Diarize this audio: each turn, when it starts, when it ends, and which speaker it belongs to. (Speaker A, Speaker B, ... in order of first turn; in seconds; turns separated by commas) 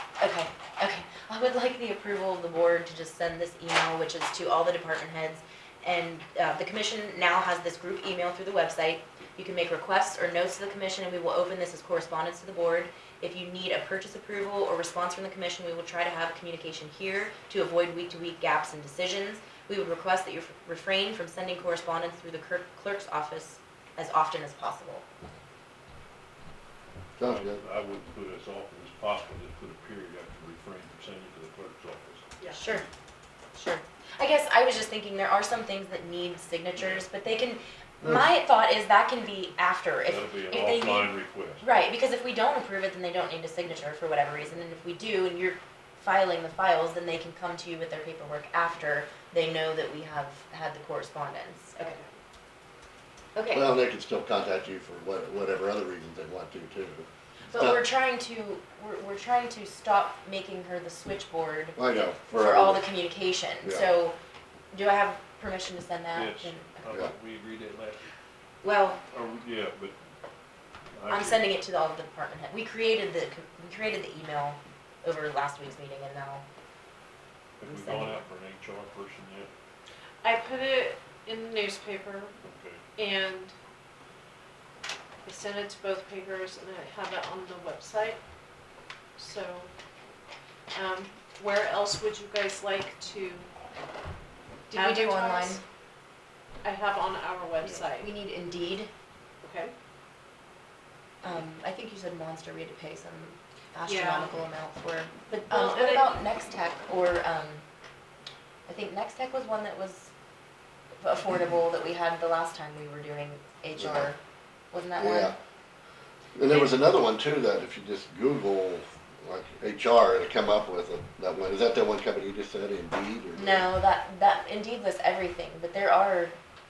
Speaker A: 0.2-25.0, Speaker B: 27.2-27.6, Speaker C: 27.2-32.3, Speaker D: 32.4-32.8, Speaker A: 32.5-32.8, Speaker A: 33.5-52.0, Speaker C: 36.8-37.0, Speaker C: 40.0-41.6, Speaker D: 51.8-52.1, Speaker A: 53.3-53.7, Speaker B: 53.5-57.8, Speaker A: 57.5-64.2, Speaker B: 61.8-62.9, Speaker A: 64.7-66.8, Speaker C: 66.1-68.0, Speaker A: 68.6-69.0, Speaker C: 69.1-69.9, Speaker C: 70.9-71.5, Speaker A: 71.1-76.4, Speaker C: 77.6-79.5, Speaker A: 77.7-78.2, Speaker D: 80.2-82.3, Speaker C: 82.4-82.8, Speaker D: 83.0-83.5, Speaker D: 85.2-88.2, Speaker D: 89.2-89.7, Speaker D: 90.7-93.5, Speaker D: 94.7-95.6, Speaker A: 94.7-95.6, Speaker D: 96.6-98.1, Speaker C: 97.6-97.9, Speaker A: 98.0-98.9, Speaker D: 99.4-99.7, Speaker A: 101.2-107.6, Speaker D: 103.8-104.3, Speaker D: 105.3-106.1, Speaker A: 108.7-110.1, Speaker A: 111.0-114.2, Speaker A: 114.7-115.3, Speaker B: 115.0-115.3, Speaker B: 116.3-123.7, Speaker A: 123.3-126.3